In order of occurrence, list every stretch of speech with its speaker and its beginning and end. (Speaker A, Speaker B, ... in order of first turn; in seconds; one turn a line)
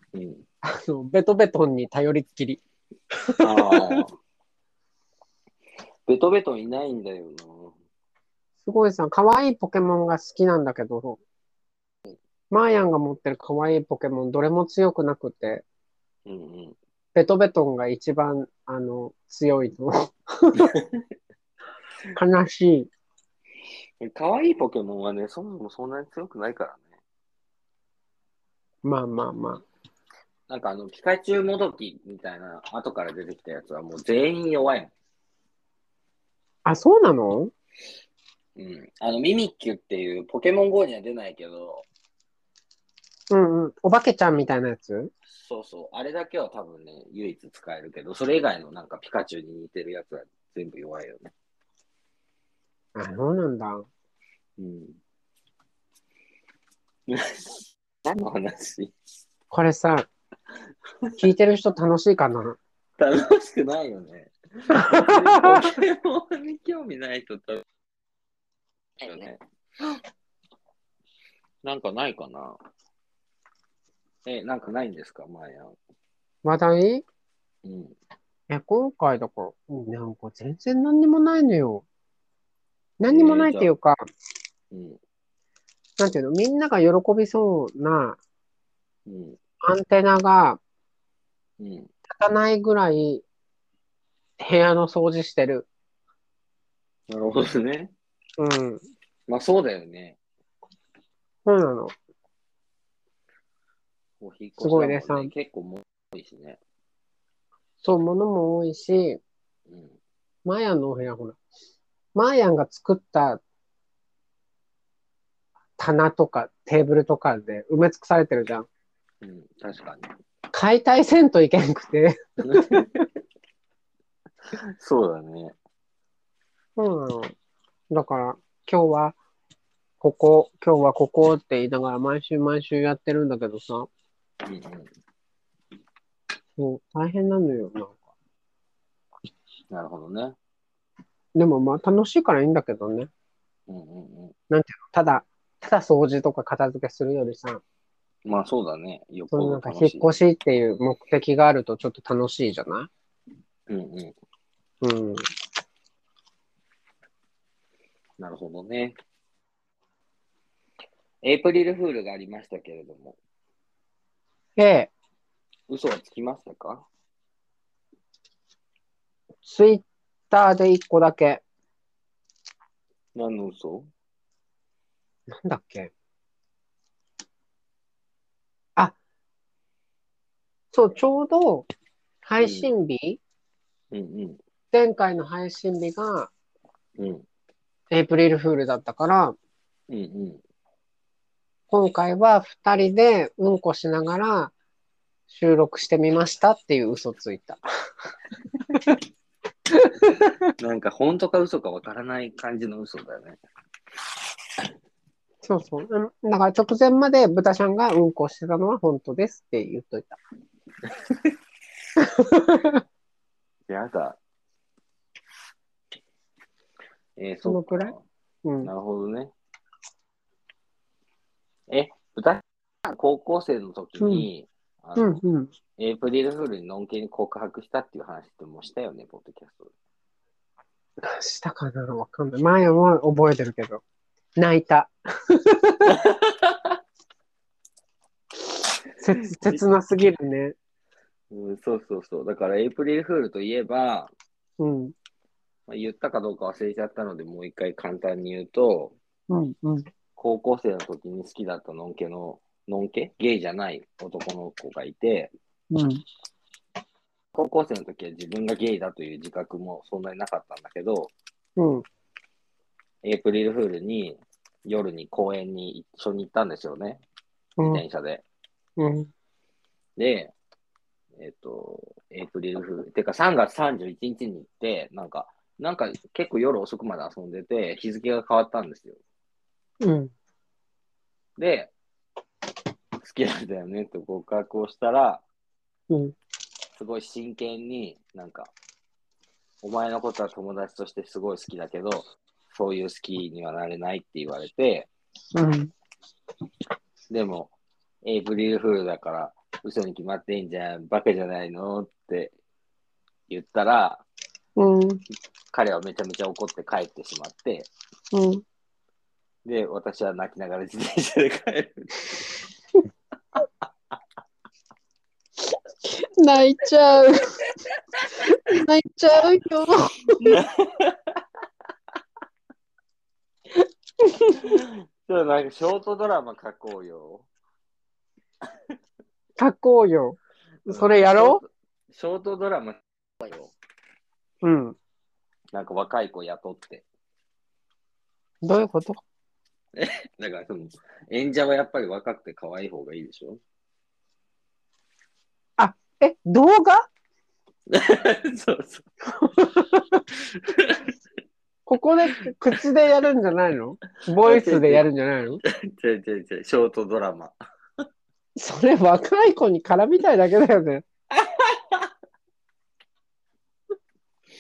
Speaker A: 0.1-0.4
Speaker B: 0.6-2.6
Speaker B: 3.1-4.0
Speaker A: 3.4-4.1
Speaker A: 6.1-7.8
Speaker B: 8.6-11.2
Speaker B: 12.5-15.6
Speaker A: 16.2-16.8
Speaker B: 17.1-20.7
Speaker A: 20.7-21.0
Speaker B: 22.1-22.9
Speaker A: 24.0-26.8
Speaker B: 28.8-29.6
Speaker A: 30.5-34.9
Speaker B: 36.6-37.5
Speaker A: 38.5-41.9
Speaker B: 43.3-45.1
Speaker A: 45.3-51.3
Speaker B: 52.9-53.9
Speaker A: 54.6-55.0
Speaker A: 57.1-58.9
Speaker B: 59.5-60.1
Speaker B: 61.2-62.6
Speaker A: 63.0-67.6
Speaker B: 64.7-65.7
Speaker A: 69.0-69.4
Speaker A: 71.6-72.6
Speaker A: 74.2-75.8
Speaker B: 76.4-77.0
Speaker A: 77.6-78.0
Speaker B: 78.5-81.8
Speaker B: 83.0-84.0
Speaker A: 83.1-83.7
Speaker A: 84.7-85.0
Speaker B: 86.0-88.2
Speaker A: 89.1-89.4
Speaker B: 89.6-90.6
Speaker A: 91.6-91.9
Speaker B: 92.1-93.2
Speaker B: 94.4-95.7
Speaker A: 97.1-97.9
Speaker B: 98.4-98.8
Speaker A: 99.3-100.2
Speaker B: 101.5-101.9
Speaker A: 104.2-106.6
Speaker B: 104.6-105.3
Speaker B: 107.8-109.2
Speaker A: 109.7-110.0
Speaker B: 110.4-111.4
Speaker B: 112.1-113.4
Speaker B: 115.8-118.7
Speaker A: 119.2-120.1
Speaker B: 120.5-122.9
Speaker A: 122.4-123.0
Speaker A: 124.8-125.5
Speaker B: 126.8-127.3
Speaker B: 127.9-129.2
Speaker B: 130.0-133.9
Speaker A: 134.4-134.9
Speaker B: 136.6-138.0
Speaker A: 139.7-140.3
Speaker B: 141.3-143.1
Speaker A: 143.7-144.3
Speaker B: 144.5-147.6
Speaker A: 148.2-150.1
Speaker B: 149.3-152.9
Speaker A: 153.7-154.1
Speaker B: 154.8-155.3
Speaker A: 158.2-159.0
Speaker A: 161.2-163.2
Speaker B: 164.6-164.9
Speaker A: 165.7-166.8
Speaker B: 169.4-171.4
Speaker A: 173.1-173.9
Speaker B: 175.3-175.9
Speaker B: 180.7-181.7
Speaker B: 182.2-183.2
Speaker A: 182.4-182.7
Speaker A: 183.9-184.4
Speaker B: 184.7-186.3
Speaker A: 187.0-187.2
Speaker B: 187.9-189.3
Speaker A: 189.9-190.4
Speaker B: 191.7-194.5
Speaker B: 195.3-197.6
Speaker A: 200.6-203.4
Speaker B: 205.4-210.2
Speaker B: 212.0-212.8
Speaker A: 213.7-214.2
Speaker A: 217.2-218.0
Speaker B: 217.4-217.9
Speaker B: 218.4-218.7
Speaker A: 218.6-219.3
Speaker A: 221.7-225.2
Speaker B: 224.0-224.3
Speaker B: 225.0-225.5
Speaker A: 225.8-229.7
Speaker B: 231.0-233.8
Speaker B: 234.4-235.9
Speaker A: 235.8-236.8
Speaker B: 239.0-240.6
Speaker A: 239.2-239.6
Speaker A: 241.3-244.1
Speaker B: 244.6-244.9
Speaker A: 245.7-248.9
Speaker B: 249.3-249.9
Speaker A: 250.2-255.3
Speaker B: 255.7-256.0
Speaker A: 257.3-261.1
Speaker B: 261.6-261.9
Speaker A: 263.0-267.0
Speaker B: 267.6-267.8
Speaker A: 267.6-268.2
Speaker B: 268.8-269.1
Speaker A: 270.0-270.3
Speaker A: 271.2-279.0
Speaker B: 279.8-280.1
Speaker A: 281.4-281.7
Speaker A: 283.0-285.2
Speaker B: 285.9-286.1
Speaker A: 286.8-288.5
Speaker A: 289.6-294.9
Speaker B: 295.3-295.7
Speaker A: 297.1-302.3
Speaker A: 303.3-304.0
Speaker B: 304.6-305.0
Speaker A: 305.5-307.7
Speaker B: 308.1-308.4
Speaker A: 309.4-312.3
Speaker B: 315.8-317.4
Speaker B: 318.2-320.4
Speaker A: 320.2-321.2
Speaker B: 324.0-324.4
Speaker A: 324.3-327.3
Speaker B: 329.4-331.4
Speaker A: 330.7-333.5
Speaker B: 334.4-334.8
Speaker A: 335.5-336.8
Speaker B: 338.4-339.0
Speaker A: 339.8-343.4
Speaker B: 345.6-346.9
Speaker A: 347.7-348.9
Speaker B: 349.2-349.6
Speaker A: 350.2-350.9
Speaker B: 351.7-355.4
Speaker A: 354.2-354.8
Speaker A: 355.4-357.3
Speaker B: 358.4-360.8
Speaker A: 361.1-361.9